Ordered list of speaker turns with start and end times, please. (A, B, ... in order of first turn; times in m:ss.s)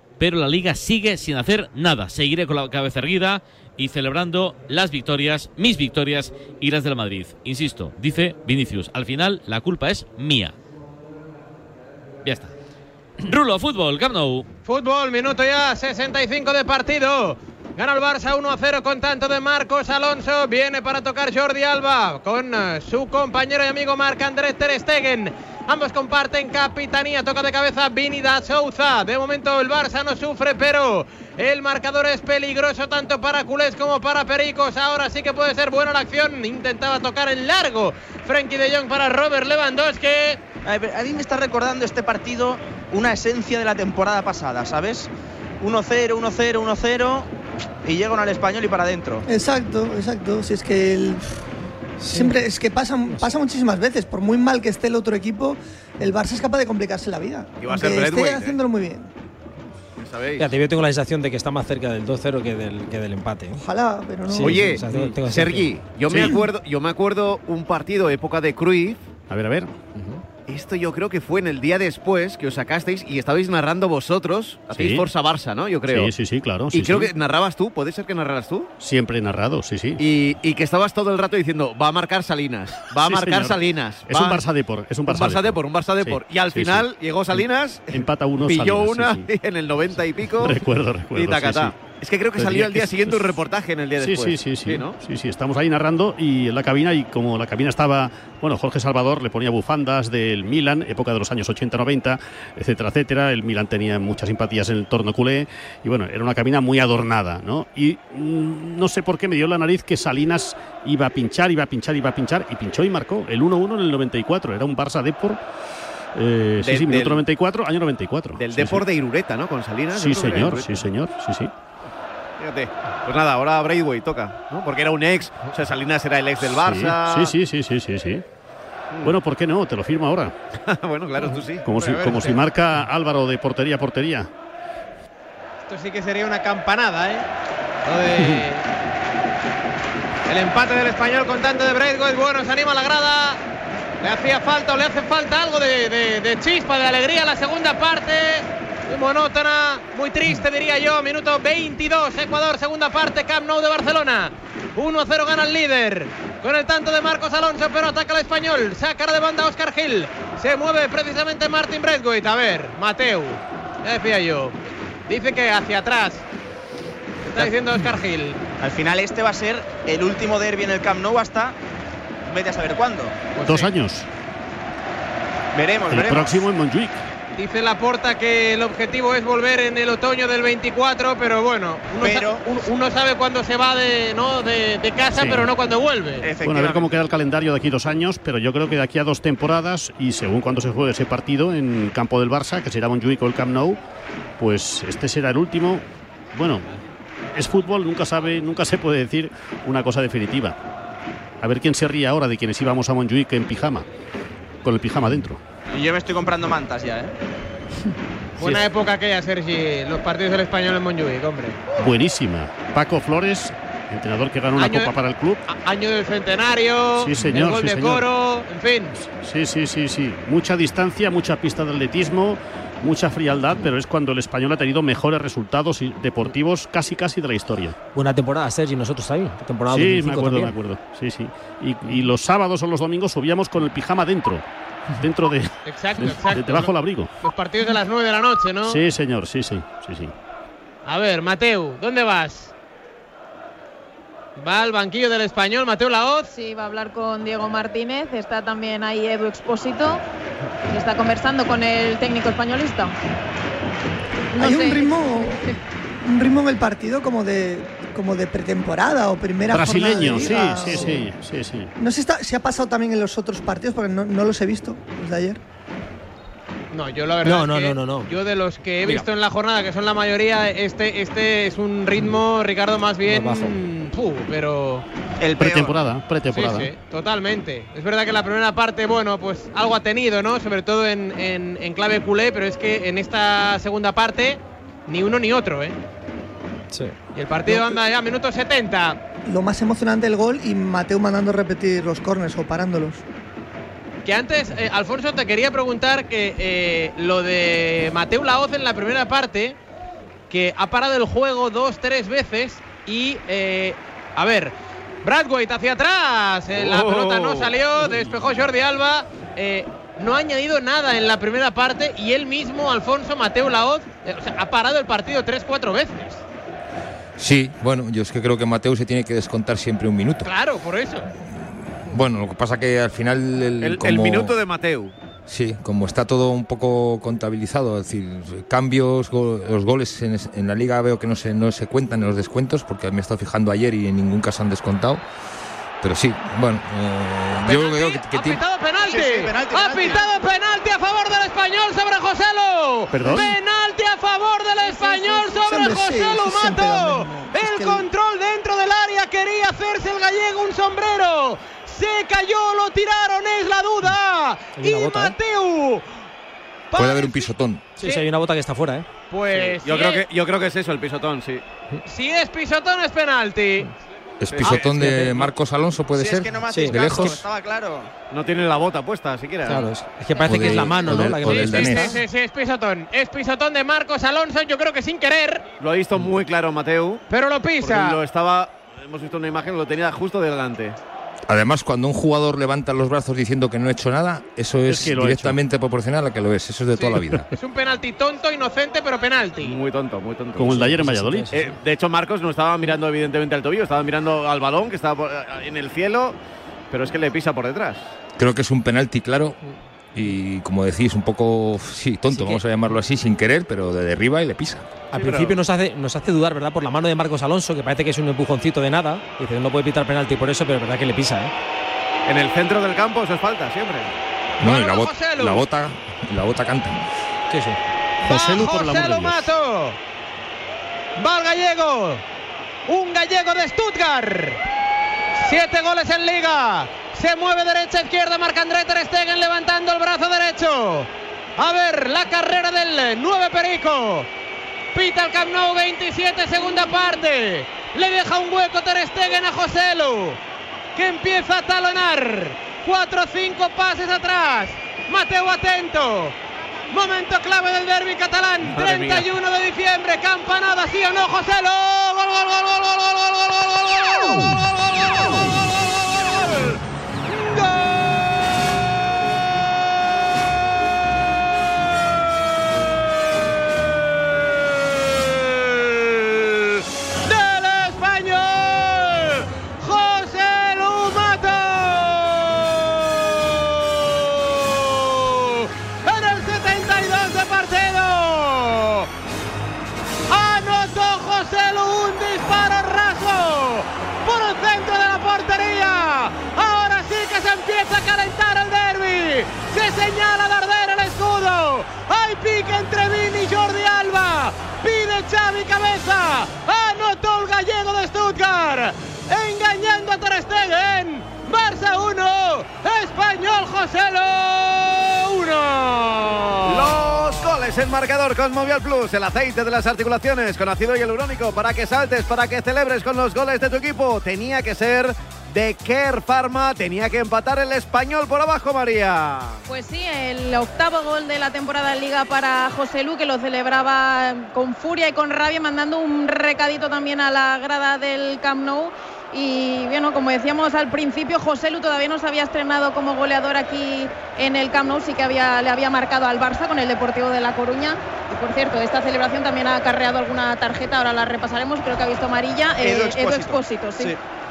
0:00.2-0:10.5 A
0:12.2-0:12.5 A
0:13.2-0:14.5 A
0:14.6-0:40.4 B
0:40.6-0:45.1 C
0:45.6-0:47.3 C
0:47.8-0:49.2 C
0:49.3-0:51.2 D
0:52.0-0:52.4 E
0:52.1-0:59.1 D
0:53.1-0:53.4 E
0:57.6-0:58.6 F
1:00.0-1:00.5 F
1:00.4-1:03.6 E
1:03.5-1:04.8 D
1:04.3-1:05.7 E
1:04.4-1:09.0 F
1:04.9-1:05.2 G
1:06.1-1:06.4 G
1:09.3-1:09.7 G
1:09.9-1:10.2 E
1:10.5-1:16.1 F
1:14.7-1:15.1 G
1:15.9-1:17.1 G
1:16.7-1:18.7 F
1:18.8-1:20.0 G
1:20.0-1:24.4 F
1:23.0-1:29.3 G
1:25.1-1:35.0 F
1:30.3-1:31.8 G
1:32.4-1:33.4 G
1:34.0-1:55.4 G
1:56.1-1:58.8 G
1:56.6-1:57.2 F
1:58.4-2:00.8 F
1:59.9-2:01.5 G
2:02.4-2:07.4 F
2:06.5-2:08.2 G
2:09.0-2:10.3 G
2:10.7-2:12.4 F
2:11.6-2:14.3 G
2:12.0-2:12.2 B
2:15.7-2:17.3 B
2:17.8-2:18.6 B
2:20.2-2:23.4 B
2:24.0-2:44.6 B
2:45.1-2:46.2 B
2:47.2-2:48.4 B
2:48.6-2:51.6 C
2:52.2-2:53.2 C
2:53.4-2:53.7 B
2:53.4-2:54.1 G
2:55.5-2:56.4 C
2:55.9-2:57.0 G
2:57.4-3:06.3 B
3:02.0-3:02.6 C
3:05.2-3:05.4 G
3:06.2-3:06.9 C
3:06.4-3:13.8 G
3:14.4-3:16.8 G
3:17.3-3:20.5 G
3:21.4-3:23.8 G
3:24.6-3:25.4 G
3:25.7-3:27.1 C
3:28.4-3:31.7 B
3:28.4-3:28.7 G
3:31.8-3:35.4 G
3:34.6-3:34.9 B
3:35.4-3:39.0 B
3:37.0-3:38.1 G
3:39.0-3:47.7 G
3:47.9-3:50.5 E
3:49.7-3:54.4 G
3:55.0-3:57.1 G
3:55.6-3:58.8 B
3:58.6-4:00.1 G
4:00.8-4:02.5 B
4:04.4-4:06.3 B
4:06.3-4:10.0 H
4:10.7-4:12.9 H
4:14.3-4:15.5 H
4:14.3-4:21.1 D
4:19.5-4:21.7 G
4:20.2-4:20.9 E
4:21.8-4:25.4 D
4:26.7-4:34.8 B
4:27.2-4:28.1 E
4:33.0-4:33.6 E
4:35.2-4:35.8 C
4:35.4-4:36.7 G
4:36.3-4:45.8 B
4:47.1-4:49.0 B
4:49.2-4:53.0 D
4:54.0-4:59.6 B
5:00.3-5:16.2 B
5:06.5-5:07.9 F
5:17.2-5:20.3 I
5:20.2-5:21.1 B
5:21.3-5:24.3 I
5:23.6-5:24.9 F
5:25.3-5:35.0 I
5:35.8-5:38.4 I
5:37.4-5:55.9 B
5:38.8-5:40.0 C
5:42.9-5:43.3 G
5:44.7-5:47.8 D
5:54.6-5:55.1 E
5:56.7-5:58.0 B
5:56.7-5:57.7 I
5:57.8-5:58.9 E
5:59.1-6:00.0 B
5:59.3-6:01.4 F
6:01.8-6:03.7 B
6:04.2-6:07.2 I
6:04.3-6:04.9 F
6:04.8-6:05.3 E
6:05.9-6:07.9 C
6:06.5-6:07.0 E
6:08.1-6:09.7 F
6:09.4-6:12.0 E
6:10.2-6:15.5 B
6:10.2-6:12.0 I
6:15.6-6:17.0 F
6:17.1-6:18.0 B
6:17.6-6:20.8 F
6:21.3-6:27.3 I
6:24.7-6:25.4 G
6:26.7-6:29.6 B
6:29.4-6:30.8 F
6:30.4-6:31.3 G
6:30.6-6:31.5 E
6:31.3-6:36.2 F
6:36.7-6:37.8 F
6:38.2-6:39.4 I
6:39.9-6:44.7 I
6:42.1-6:42.4 E
6:44.9-6:45.4 F
6:44.9-6:51.3 E
6:52.0-6:53.9 F
6:54.4-6:55.4 B
6:54.4-6:56.8 I
6:57.3-6:57.5 E
6:58.0-6:59.8 B
6:58.0-6:59.3 G
7:01.0-7:02.0 B
7:02.7-7:04.4 B
7:05.2-7:14.1 B
7:14.7-7:20.2 B
7:20.7-7:26.2 B
7:26.7-7:36.6 B
7:28.4-7:29.1 F
7:37.1-7:38.5 B
7:44.2-7:58.9 B
8:00.1-8:26.8 B
8:26.5-8:39.4 F
8:39.5-9:04.0 H
9:02.6-9:03.8 C